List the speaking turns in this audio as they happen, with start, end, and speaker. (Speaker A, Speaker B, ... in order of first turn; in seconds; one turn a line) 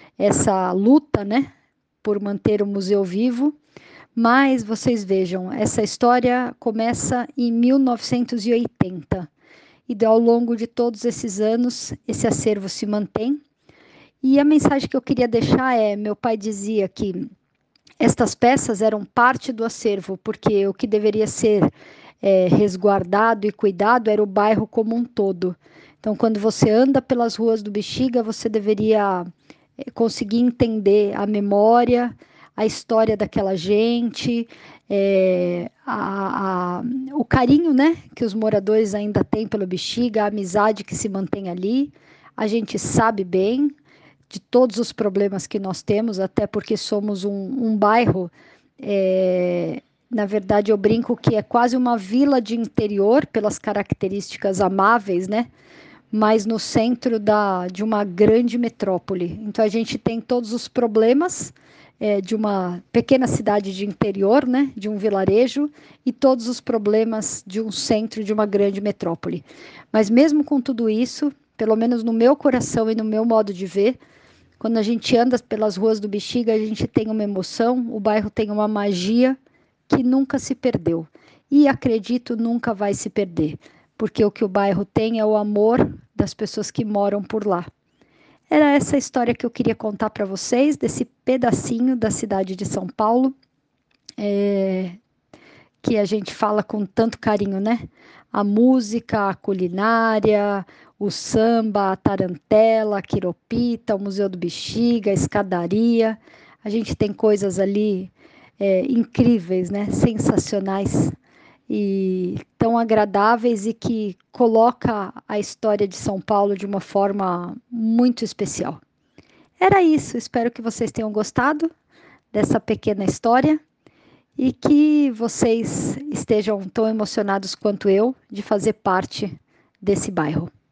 Speaker A: 0.2-1.5
Speaker A: 2.0-3.6
Speaker A: 4.2-9.3
Speaker A: 9.9-13.4
Speaker A: 14.2-17.3
Speaker A: 18.0-21.7
Speaker A: 22.2-29.3
Speaker A: 29.8-43.8
Speaker A: 44.3-55.5
Speaker A: 56.1-74.0
Speaker A: 74.6-79.4
Speaker A: 79.9-87.7
Speaker A: 88.5-93.3
Speaker A: 94.2-95.0
Speaker A: 95.8-111.2
Speaker A: 111.7-118.8
Speaker A: 119.6-121.7
Speaker A: 122.3-123.6
Speaker A: 124.4-130.5